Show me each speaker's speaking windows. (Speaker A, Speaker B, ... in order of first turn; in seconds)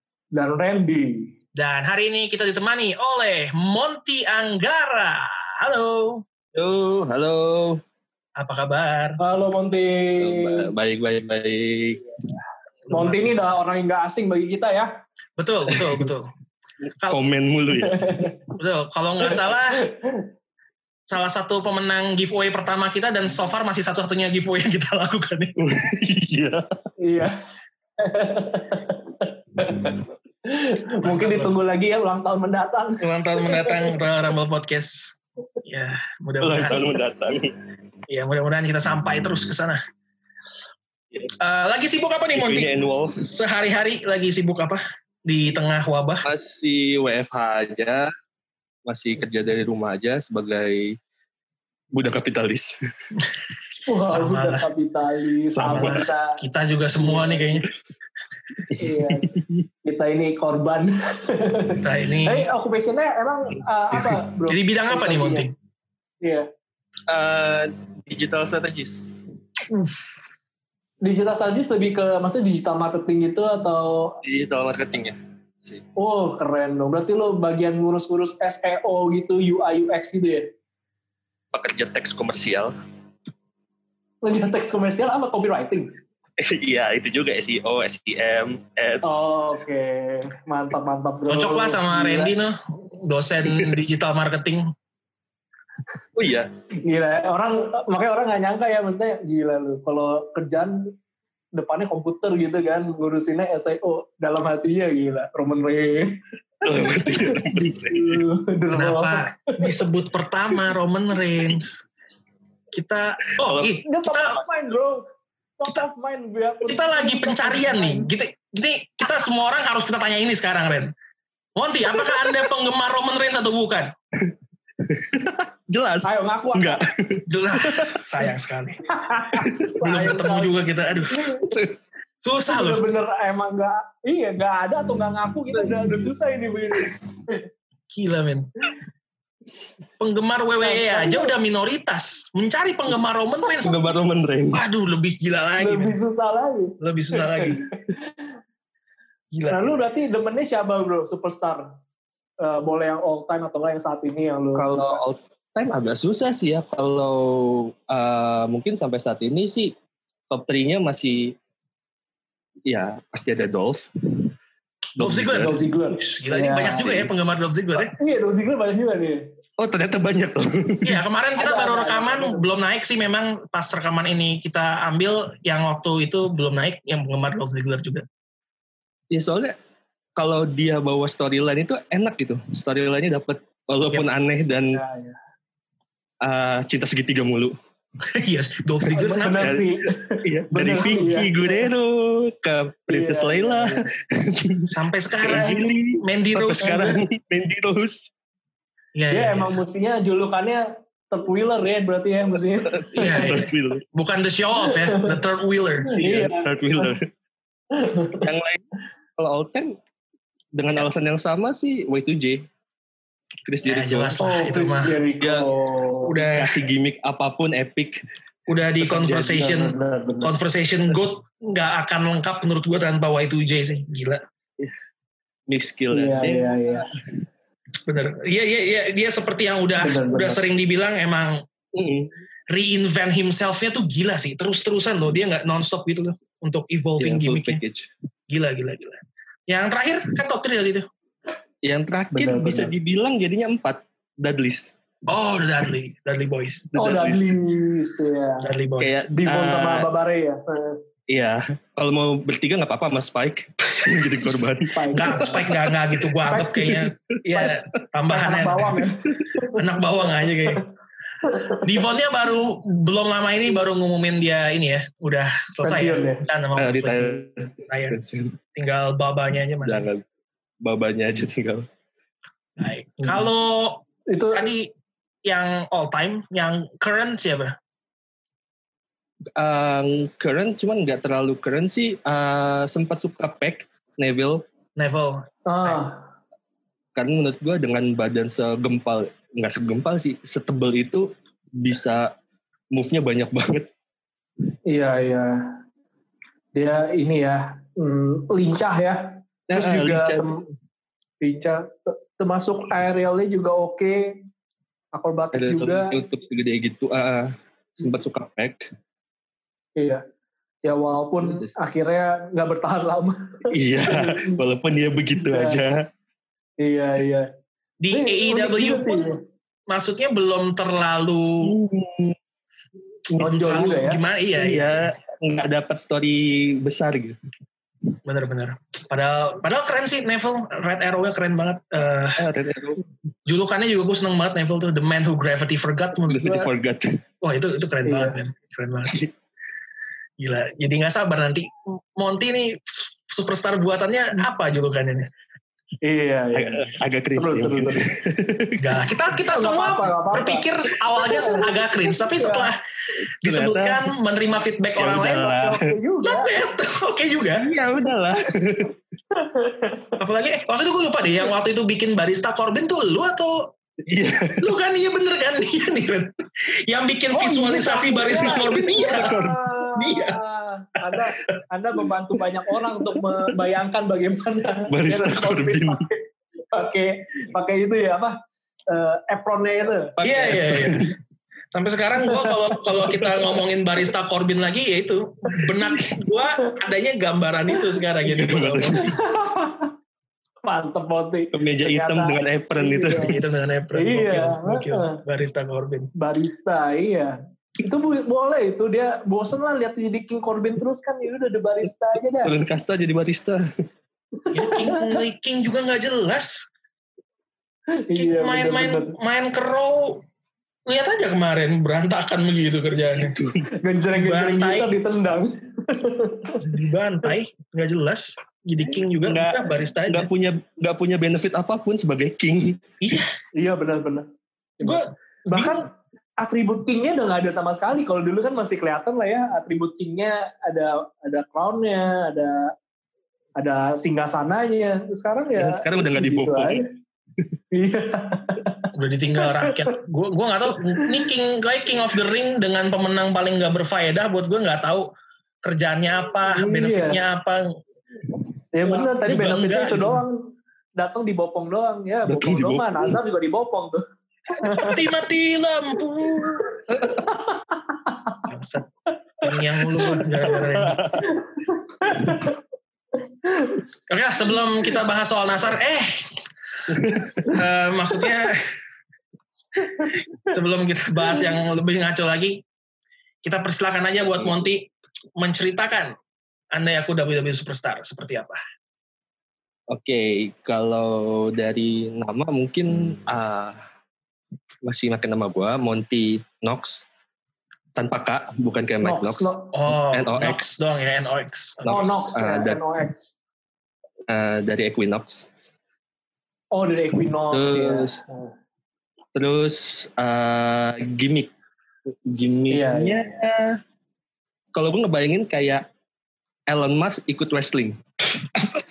Speaker A: 0.3-1.3, 9.2-10.7, 12.9-14.9, 17.7-18.4, 19.3-20.3, 27.0-27.4, 28.0-34.0, 53.9-56.4, 57.0-57.6, 58.8-59.3, 59.8-65.5, 66.2-66.5, 71.0-74.2, 76.0-80.5, 84.2-85.9, 89.0-92.3, 96.8-100.9, 101.5-109.8, 113.8-115.0, 115.6-118.1, 126.0-126.8, 128.9-130.5, 131.1-131.5, 132.5-137.4, 140.6-141.3, 145.6-148.1, 149.5-151.8, 152.4-155.0, 165.4-166.9, 167.7-169.3, 171.4-172.4, 184.7-185.2, 188.9-191.7, 192.9-193.8, 199.1-203.3, 204.6-205.2, 205.9-206.9, 207.7-208.3, 214.2-216.2, 218.9-220.3, 225.9-226.9, 229.8-230.4, 242.1-242.7, 246.8-248.5, 249.1-250.8, 254.6-255.4, 256.3-256.7, 257.2-257.5, 258.0-259.6, 260.2-260.6, 261.2-261.6, 265.6-266.2, 274.1-274.5, 285.4-286.0, 294.7-295.6, 296.5-300.5, 301.2-304.2, 304.9-306.0, 309.8-310.0, 310.6-313.2, 313.8-314.4, 315.2-315.6, 316.6-317.3, 317.9-319.2, 323.2-324.0, 337.9-338.2, 345.8-347.8, 349.3-352.5, 355.2-356.4, 359.1-359.9, 367.1-380.0, 388.8-389.7, 390.4-393.1, 393.7-395.0, 395.9-402.3, 404.2-405.0, 407.9-408.9, 413.6-416.4, 423.3-424.1, 424.6-432.5, 433.4-436.7, 437.5-439.7, 440.7-441.1, 446.3-447.0, 448.5-453.8, 454.4-454.8, 457.0-457.3, 457.9-458.1, 459.7-460.3, 461.0-462.3, 463.2-463.6, 488.8-489.5, 491.7-493.1, 496.5-498.3, 502.5-503.2
Speaker B: 1.5-6.2, 8.3-9.2, 12.9-13.3, 15.4-16.3, 17.0-17.3, 18.6-19.8, 21.1-25.5, 31.0-31.6, 33.0-36.9, 38.1-39.8, 41.4-46.2, 54.1-54.6, 55.5-57.7, 61.8-62.5, 64.5-65.5, 91.3-94.7, 108.7-111.8, 112.7-114.4, 116.6-120.9, 121.5-123.9, 127.3-128.9, 129.8-131.3, 132.2-132.9, 137.9-138.5, 140.0-143.8, 144.5-145.9, 146.8-147.6, 149.3-149.8, 165.0-167.9, 170.8-178.0, 188.1-189.6, 194.7-197.0, 198.9-199.6, 202.9-205.9, 213.6-214.9, 216.1-216.6, 218.5-224.2, 227.8-231.4, 232.5-237.6, 238.3-240.9, 245.1-246.7, 248.4-249.1, 254.9-258.8, 259.5-260.6, 261.6-268.0, 268.6-269.9, 272.6-273.8, 274.3-274.7, 275.2-277.5, 284.8-285.8, 317.8-319.1, 319.7-321.5, 323.1-324.8, 328.1-332.2, 333.2-336.5, 337.2-338.9, 340.2-345.1, 348.6-352.6, 353.2-355.3, 356.0-357.5, 360.0-363.5, 364.4-369.1, 369.7-370.2, 380.0-380.9, 381.5-388.9, 393.0-395.9, 404.3-406.4, 407.9-410.0, 410.6-413.2, 413.9-414.7, 416.4-420.1, 422.8-423.1, 424.6-425.6, 438.7-444.9, 445.4-447.6, 448.6-450.0, 454.5-456.6, 458.3-458.7, 459.2-460.9, 463.9-466.1, 467.2-468.4, 470.2-472.4, 473.2-475.9, 476.5-478.4, 489.5-492.0
Speaker C: 6.5-7.8, 10.2-12.0, 15.7-16.1, 17.0-18.4, 25.6-26.6, 36.4-37.6, 42.3-43.2, 46.2-48.1, 48.9-51.0, 51.9-52.8, 58.7-59.6, 67.1-69.1, 74.2-75.8, 81.5-82.8, 86.4-89.1, 93.4-93.7, 96.2-96.5, 106.6-108.2, 113.4-113.7, 121.9-122.4, 124.2-128.0, 129.3-129.6, 135.6-136.1, 143.6-144.6, 154.5-159.7, 160.3-161.3, 162.7-164.3, 165.0-165.6, 166.8-167.1, 169.6-171.0, 179.1-179.6, 180.2-184.8, 186.2-187.6, 189.3-189.7, 190.2-194.7, 195.2-198.1, 202.7-203.8, 205.9-207.1, 208.2-208.6, 209.2-209.8, 210.5-212.4, 213.4-214.7, 215.2-215.5, 216.2-218.0, 225.5-226.9, 231.7-232.2, 237.0-237.9, 241.6-244.7, 246.7-247.4, 248.8-249.9, 251.1-255.8, 266.6-268.4, 269.6-270.0, 270.6-271.6, 279.4-284.4, 286.9-292.1, 292.7-293.7, 299.5-300.3, 305.3-308.7, 311.2-311.5, 313.5-315.9, 321.4-322.1, 323.1-323.6, 324.4-327.1, 332.2-332.8, 336.0-337.0, 346.3-348.8, 353.2-353.9, 354.8-355.7, 357.4-358.8, 363.9-364.4, 368.9-369.4, 374.6-375.8, 380.0-380.9, 388.0-388.9, 391.3-393.1, 402.2-403.5, 412.9-413.4, 419.0-422.6, 435.4-436.6, 452.1-452.9, 456.7-457.0, 460.6-461.0, 466.7-467.2, 474.2-474.5, 479.7-483.6, 484.6-486.9, 487.7-490.4, 491.6-492.6, 494.1-495.3, 497.3-498.0, 499.1-501.3, 501.9-503.6, 504.5-505.7, 506.5-507.8